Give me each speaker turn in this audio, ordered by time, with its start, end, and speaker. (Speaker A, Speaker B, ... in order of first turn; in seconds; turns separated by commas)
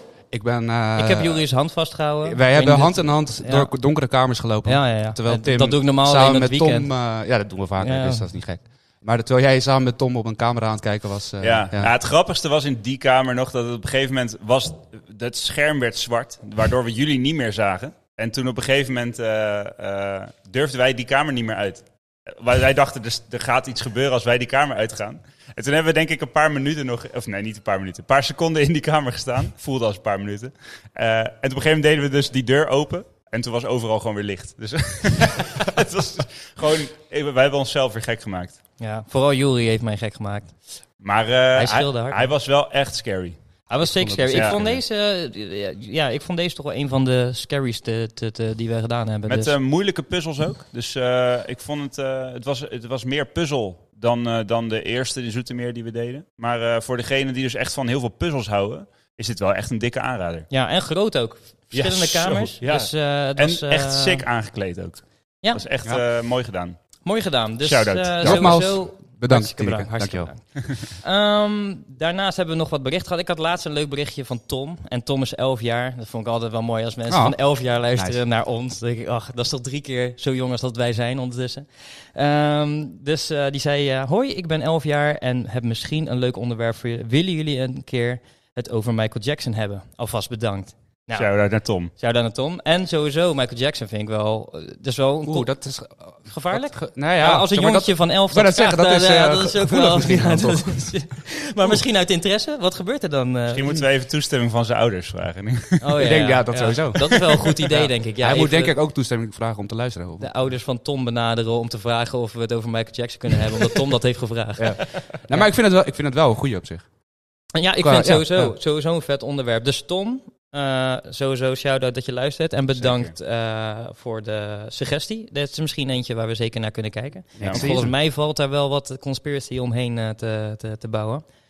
Speaker A: 0.3-1.5, Speaker B: 0.9-3.7, Speaker A: 2.2-11.9, Speaker B: 4.7-6.9, Speaker B: 7.8-8.3, Speaker C: 11.4-38.6, Speaker B: 38.8-40.5, Speaker C: 41.0-43.4, Speaker B: 41.5-42.2, Speaker B: 43.7-49.5, Speaker A: 43.8-44.8, Speaker C: 49.3-60.5, Speaker B: 60.5-64.2, Speaker C: 61.7-66.8, Speaker B: 67.0-91.3, Speaker C: 67.6-68.5, Speaker A: 68.2-70.3, Speaker A: 77.1-78.2, Speaker C: 91.2-91.9, Speaker B: 92.0-95.5, Speaker A: 95.3-101.0, Speaker B: 96.3-103.7, Speaker C: 103.5-106.0, Speaker B: 105.8-108.7, Speaker A: 106.0-110.3, Speaker B: 110.2-115.0, Speaker A: 114.6-116.9, Speaker B: 117.5-131.2, Speaker A: 117.8-118.6, Speaker A: 122.8-123.0, Speaker A: 127.4-127.9, Speaker C: 127.4-127.7